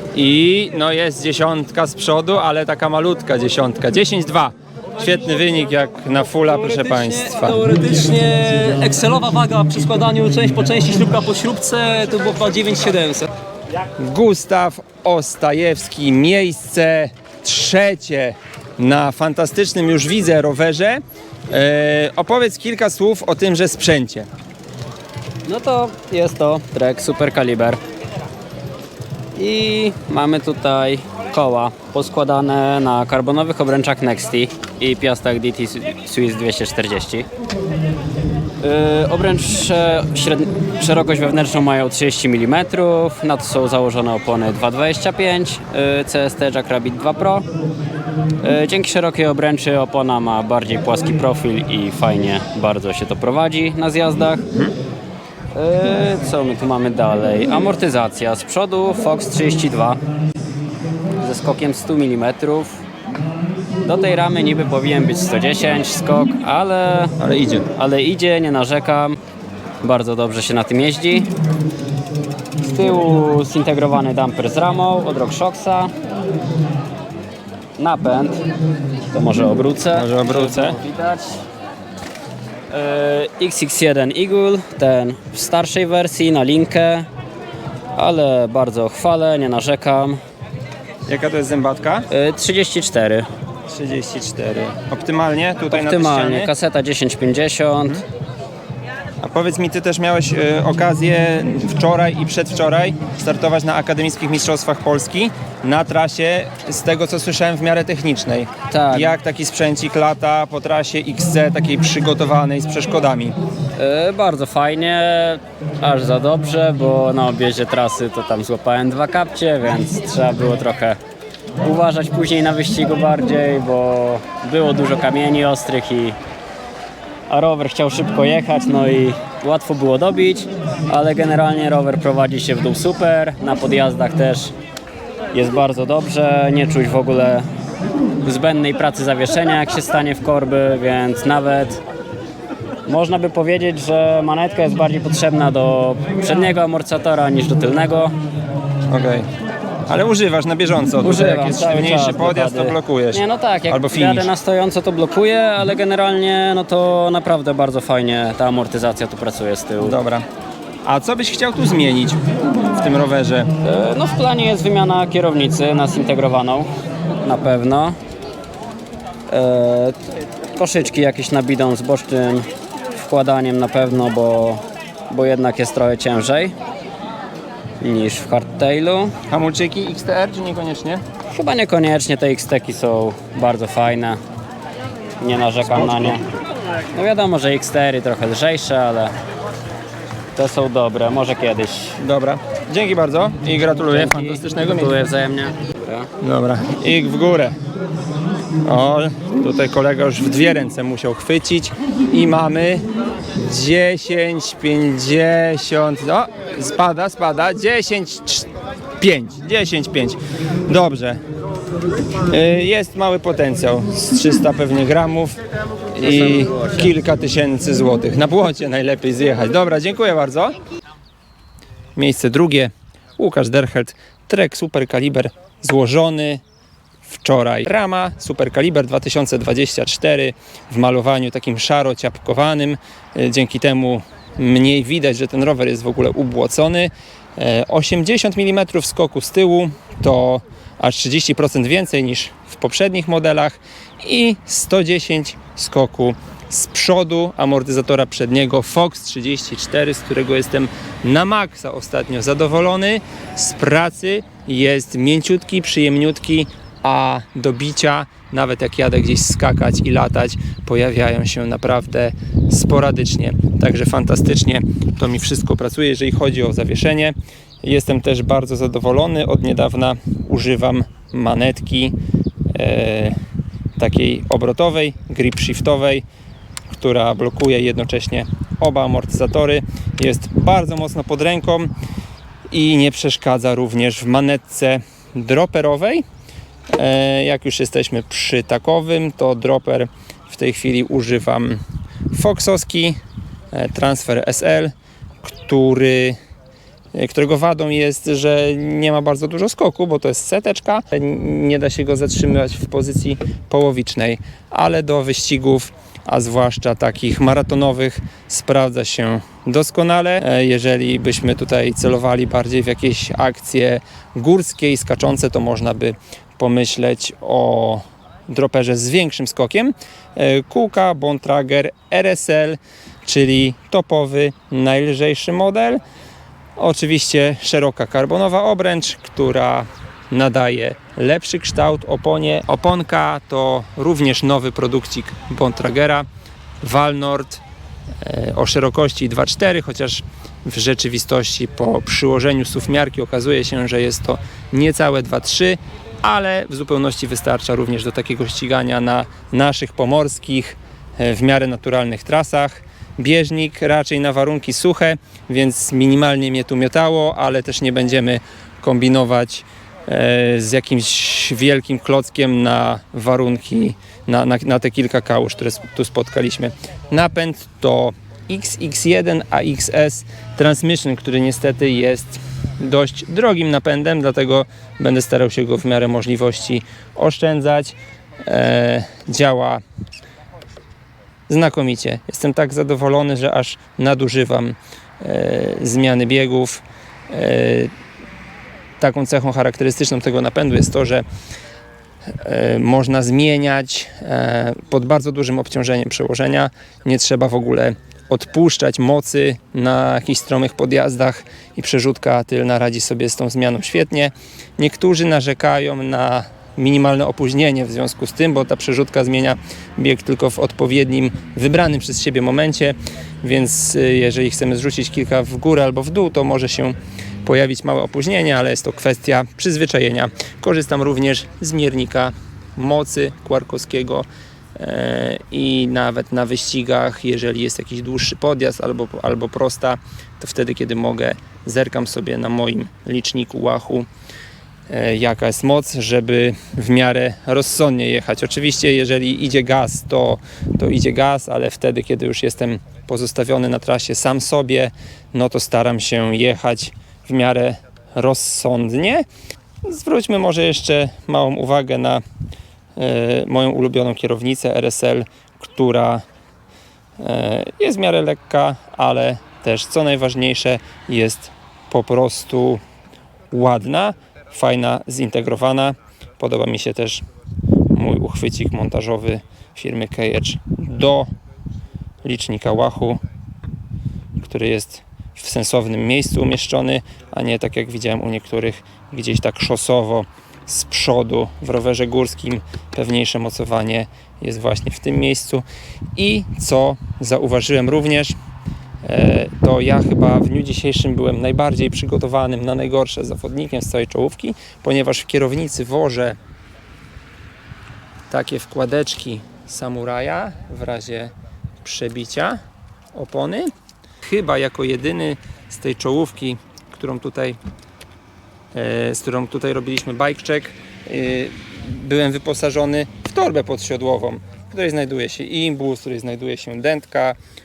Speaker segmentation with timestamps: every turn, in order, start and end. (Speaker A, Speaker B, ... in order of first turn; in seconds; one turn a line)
Speaker A: 0.1-7.6
Speaker B: 6.5-13.3
Speaker A: 14.0-24.3
Speaker C: 25.5-27.8
Speaker C: 29.4-37.3
Speaker C: 38.6-47.5
Speaker C: 48.4-54.5
Speaker C: 55.5-60.0
Speaker C: 61.2-62.8
Speaker C: 63.8-67.2
Speaker A: 67.2-67.7
Speaker C: 67.7-69.2
Speaker C: 69.8-71.3
Speaker C: 72.6-75.9
Speaker C: 77.8-78.4
Speaker C: 79.1-81.4
Speaker A: 79.9-80.8
Speaker C: 82.7-87.1
Speaker C: 88.0-90.2
Speaker A: 91.1-92.1
Speaker C: 92.1-93.3
Speaker A: 93.7-96.5
Speaker C: 95.7-98.0
Speaker A: 99.2-113.3
Speaker C: 108.7-109.2
Speaker C: 113.8-121.0
Speaker C: 121.6-126.2
Speaker C: 127.3-134.5
Speaker C: 135.3-137.4
Speaker C: 138.2-141.8
Speaker C: 142.9-148.2
Speaker A: 148.9-149.3
Speaker A: 149.9-154.3
Speaker C: 151.0-160.0
Speaker A: 159.8-160.2
Speaker A: 160.9-163.5
Speaker C: 163.6-168.0
Speaker C: 169.3-170.0
Speaker C: 170.6-176.6
Speaker C: 177.8-179.1
Speaker A: 179.3-181.0
Speaker C: 181.3-184.2
Speaker C: 185.2-186.2
Speaker A: 185.6-186.2
Speaker C: 186.9-189.1
Speaker C: 190.4-192.0
Speaker A: 192.0-195.0
Speaker C: 193.7-196.1
Speaker A: 196.2-197.6
Speaker A: 198.6-202.8
Speaker A: 203.4-211.2
Speaker A: 212.3-215.4
Speaker A: 215.9-220.6
Speaker C: 216.0-216.9
Speaker A: 222.0-226.4
Speaker A: 227.1-271.9
Speaker A: 272.5-273.2
Speaker A: 273.8-276.1
Speaker A: 276.7-281.7
Speaker A: 282.5-286.0
Speaker A: 286.7-291.6
Speaker A: 292.1-293.0
Speaker A: 293.5-294.7
Speaker A: 295.2-296.2
Speaker A: 296.9-325.8
Speaker A: 326.6-336.1
Speaker A: 336.6-337.4
Speaker A: 338.0-379.6
Speaker A: 381.3-387.7
Speaker A: 388.8-391.1
Speaker A: 392.2-433.9
Speaker A: 434.7-449.1
Speaker A: 449.7-452.0
Speaker A: 452.8-456.0
Speaker A: 457.0-462.6
Speaker A: 463.3-467.1
Speaker A: 467.7-471.1
Speaker A: 472.0-473.0
Speaker A: 474.2-485.4
Speaker A: 486.0-488.2
Speaker A: 488.8-496.2
Speaker A: 498.1-502.4
Speaker A: 502.9-503.5
Speaker A: 504.0-507.4
Speaker A: 508.5-517.2